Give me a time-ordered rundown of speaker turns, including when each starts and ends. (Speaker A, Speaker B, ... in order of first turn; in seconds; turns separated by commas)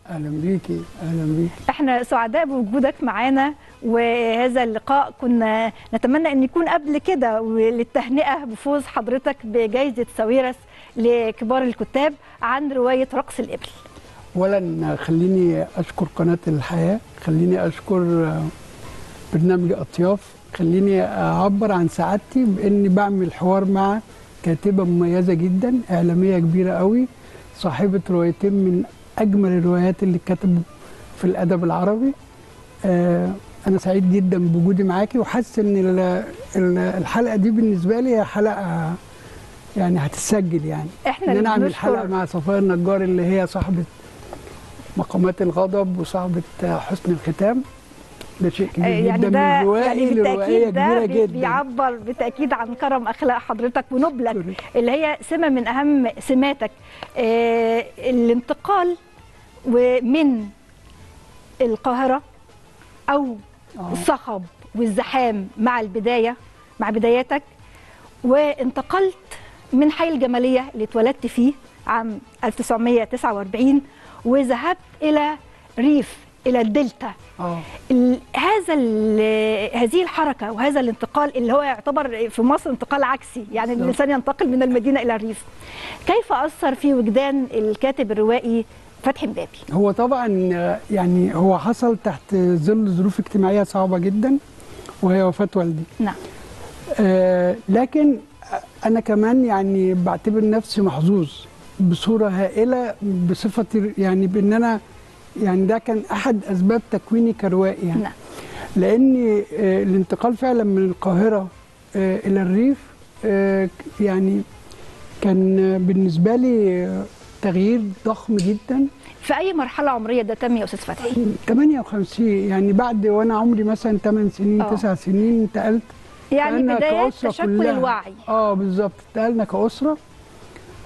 Speaker A: 0.1-1.6, Speaker B: 1.7-13.7, Speaker A: 14.4-18.5, Speaker A: 19.3-30.7, Speaker A: 31.2-32.1, Speaker A: 32.9-39.0, Speaker A: 39.8-43.9, Speaker B: 41.1-42.1, Speaker A: 45.0-47.6, Speaker A: 48.4-51.6, Speaker B: 48.8-59.0, Speaker A: 54.3-54.6, Speaker B: 59.6-60.5, Speaker B: 61.6-62.2, Speaker B: 63.1-67.5, Speaker A: 63.8-64.1, Speaker B: 68.2-77.2, Speaker A: 77.4-77.7, Speaker B: 77.9-85.5, Speaker A: 83.6-84.0, Speaker B: 86.1-89.7, Speaker A: 89.7-94.4, Speaker A: 95.0-95.9, Speaker A: 97.0-104.8, Speaker A: 105.4-108.0, Speaker A: 108.8-114.4, Speaker A: 115.2-118.9, Speaker B: 119.2-121.2, Speaker A: 121.2-125.9, Speaker B: 124.6-124.8, Speaker B: 126.3-128.2, Speaker A: 126.4-130.0